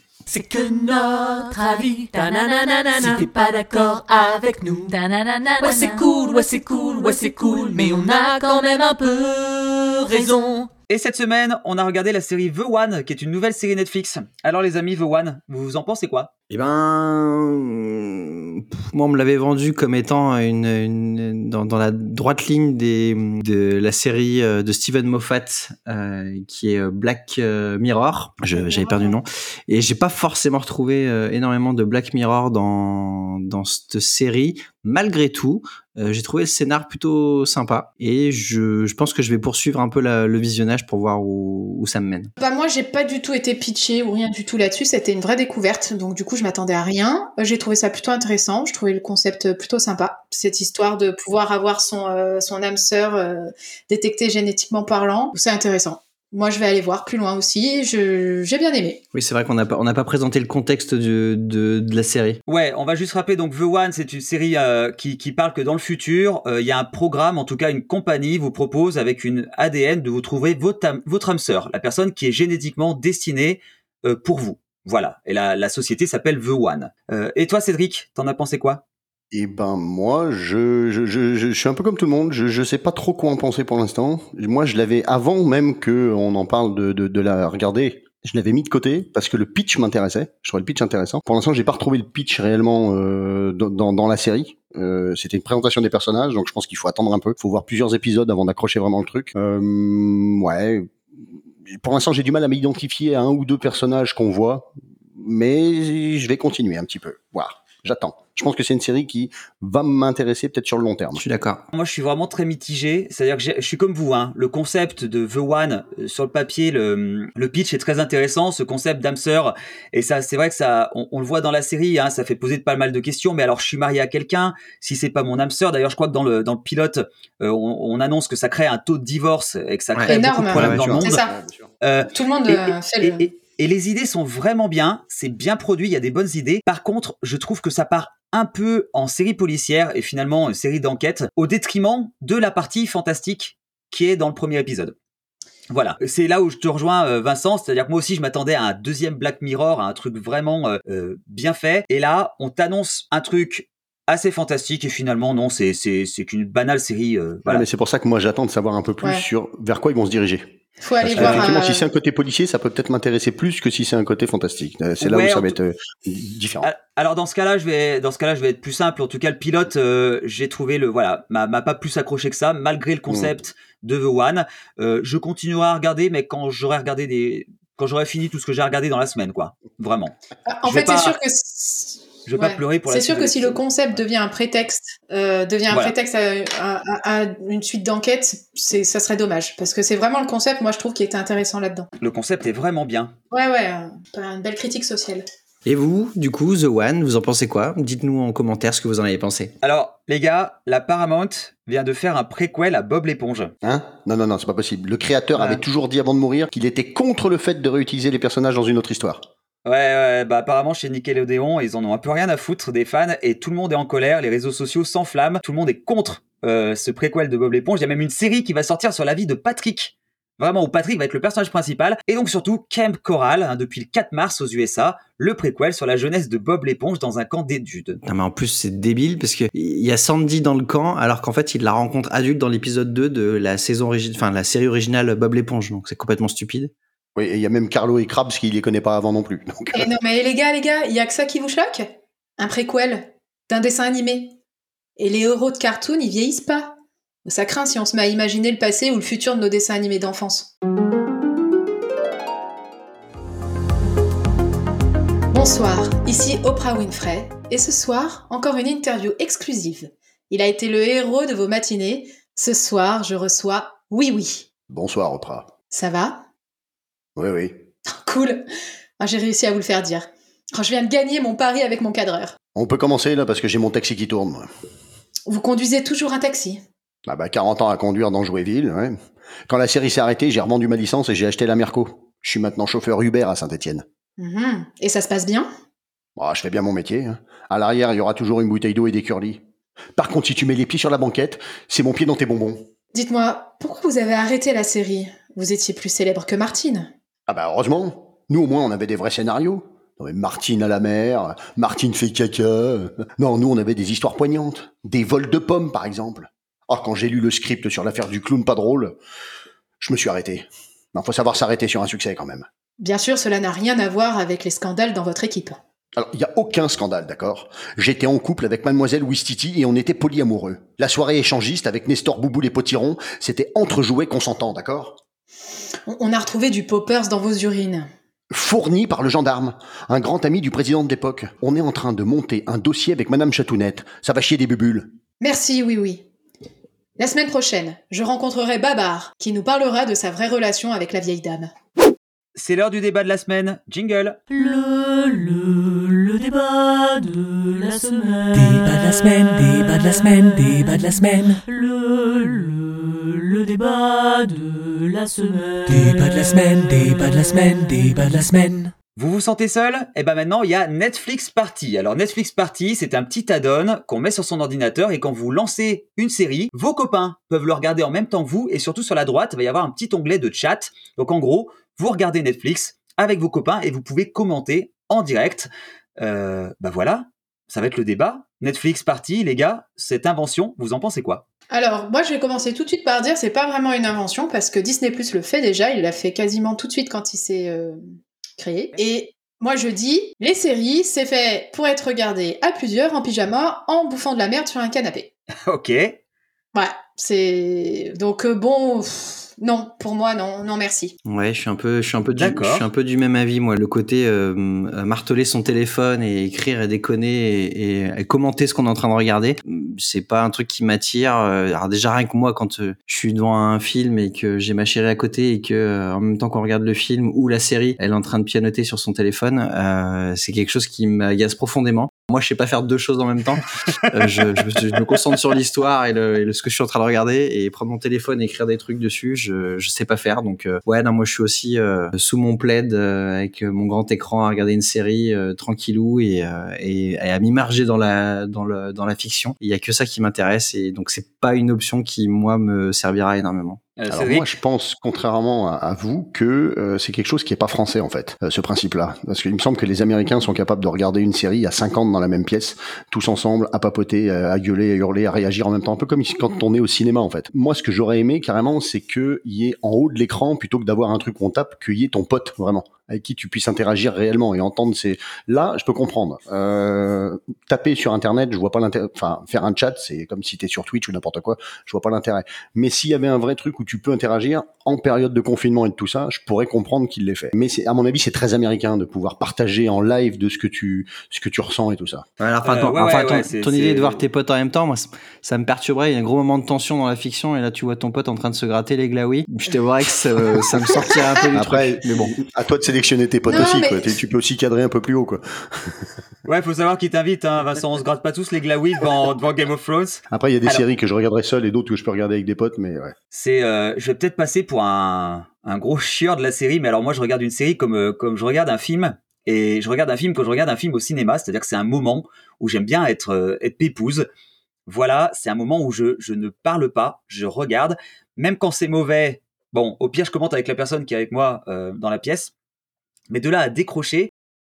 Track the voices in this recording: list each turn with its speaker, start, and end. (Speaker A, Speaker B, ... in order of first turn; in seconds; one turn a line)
Speaker A: 0.3-10.7
Speaker B: 10.9-16.3
Speaker C: 16.5-42.3
Speaker D: 28.6-29.2
Speaker D: 42.4-59.0
Speaker C: 59.1-62.4
Speaker B: 62.5-78.8
Speaker E: 79.3-100.9
Speaker E: 101.7-111.2
Speaker C: 111.2-111.7
Speaker B: 111.7-131.2
Speaker C: 129.9-131.0
Speaker D: 130.1-131.3
Speaker E: 130.8-131.7
Speaker B: 131.8-144.9
Speaker D: 132.1-133.3
Speaker B: 145.7-157.7
Speaker E: 157.5-166.7
Speaker D: 160.8-161.9
Speaker B: 161.2-161.5
Speaker B: 165.0-165.6
Speaker B: 166.6-180.1
Speaker D: 180.5-191.9
Speaker B: 180.7-181.2
Speaker B: 182.3-183.6
Speaker B: 192.0-193.1
Speaker D: 193.3-195.2
Speaker C: 195.7-199.5
Speaker B: 199.6-203.5
Speaker E: 203.6-209.3
Speaker B: 205.4-205.6
Speaker B: 209.7-228.0
Speaker C: 228.1-236.7
Speaker E: 237.2-239.9
Speaker D: 239.7-244.4
Speaker D: 245.0-250.5
Speaker D: 255.3-264.5
Speaker E: 264.7-265.5
Speaker D: 265.7-266.2
Speaker E: 267.2-267.6
Speaker D: 267.9-268.4
Speaker D: 269.0-272.4
Speaker E: 272.6-274.5
Speaker D: 275.3-276.6
Speaker E: 277.1-279.0
Speaker E: 279.5-283.8
Speaker D: 284.2-285.5
Speaker E: 286.2-289.4
Speaker E: 290.0-292.7
Speaker D: 292.9-296.9
Speaker E: 297.3-309.0
Speaker E: 309.8-312.5
Speaker D: 312.8-315.6
Speaker E: 316.0-325.0
Speaker D: 325.9-327.9
Speaker E: 328.3-334.9
Speaker D: 335.2-336.1
Speaker D: 337.0-341.5
Speaker B: 342.4-344.2
Speaker A: 344.3-358.7
Speaker B: 359.0-381.2
Speaker D: 381.5-387.8
Speaker D: 388.4-395.1
Speaker B: 395.5-396.0
Speaker D: 396.5-400.9
Speaker C: 401.1-443.6
Speaker B: 402.1-402.7
Speaker B: 443.8-444.3
Speaker E: 443.9-482.1
Speaker C: 482.2-492.1
Speaker B: 482.4-484.0
Speaker E: 491.3-495.9
Speaker D: 493.3-494.0
Speaker B: 496.3-500.6
Speaker E: 500.1-502.9
Speaker B: 503.1-514.1
Speaker B: 514.7-522.3
Speaker B: 523.1-524.1